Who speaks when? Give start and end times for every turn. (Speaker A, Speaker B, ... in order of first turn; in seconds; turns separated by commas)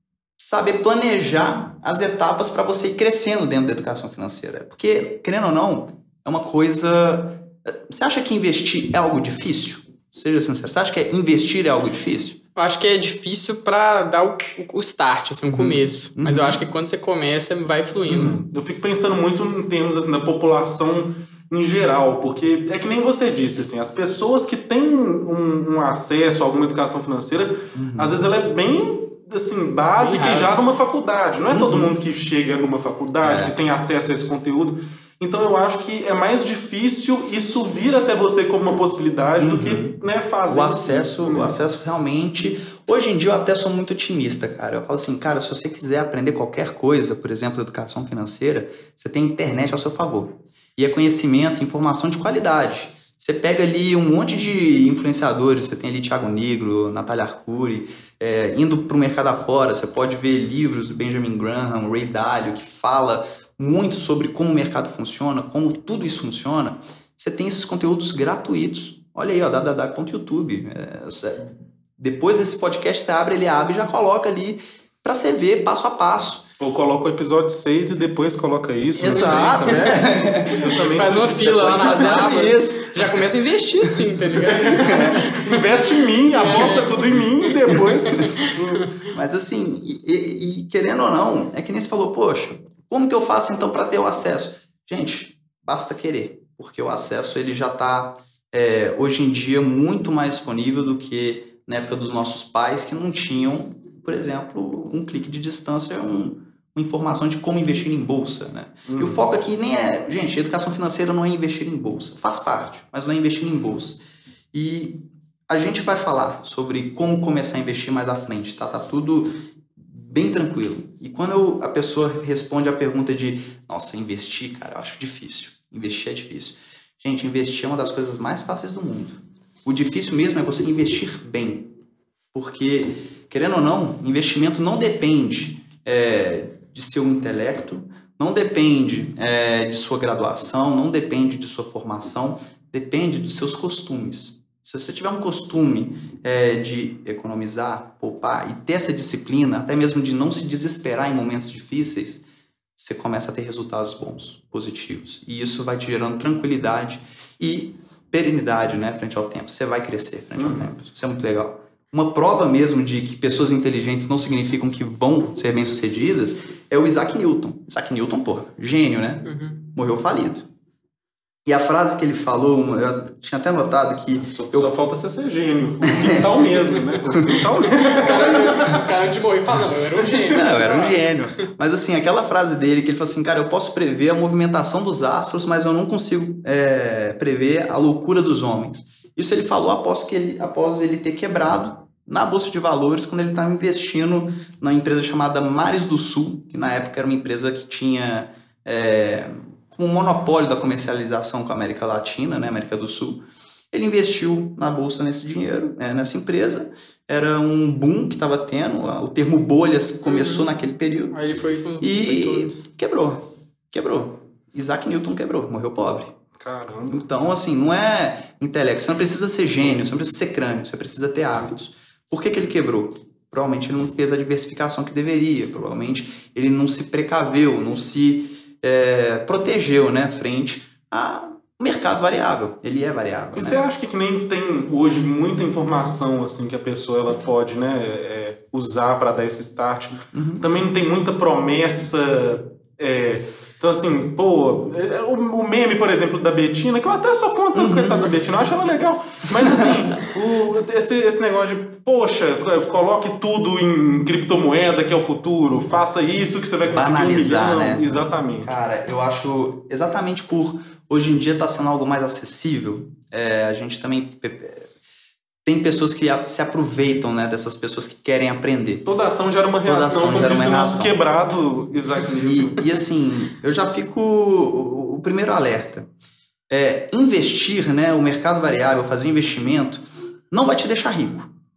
Speaker A: 0.4-12.4, Speaker B: 12.6-18.4, Speaker A: 15.5-16.6, Speaker A: 18.1-18.4, Speaker C: 18.1-41.6, Speaker A: 27.7-28.3, Speaker B: 30.0-30.6, Speaker A: 31.5-31.9, Speaker A: 33.2-33.6, Speaker A: 39.4-40.0, Speaker A: 40.5-76.5, Speaker C: 76.6-82.3, Speaker A: 79.0-83.2, Speaker B: 79.1-85.8, Speaker C: 84.5-88.9, Speaker A: 84.7-85.3, Speaker B: 86.3-88.5, Speaker A: 87.7-88.3, Speaker A: 89.1-114.0, Speaker C: 108.9-109.3, Speaker A: 114.5-131.7, Speaker A: 132.3-152.2, Speaker A: 152.8-170.5, Speaker C: 160.4-160.7, Speaker B: 169.3-169.6, Speaker A: 171.5-174.7, Speaker C: 174.2-178.8, Speaker A: 175.8-176.6, Speaker B: 177.7-181.1, Speaker C: 180.1-180.4, Speaker A: 180.3-211.2, Speaker B: 210.1-210.5, Speaker B: 211.1-212.6, Speaker A: 211.8-216.2, Speaker C: 216.4-217.1, Speaker A: 216.9-233.6, Speaker C: 233.3-258.6, Speaker A: 240.1-240.5, Speaker A: 247.5-248.1, Speaker A: 249.4-249.8, Speaker A: 256.7-264.7, Speaker A: 265.4-268.9, Speaker C: 268.9-272.7, Speaker A: 269.6-271.0, Speaker A: 272.1-275.9, Speaker A: 276.5-281.3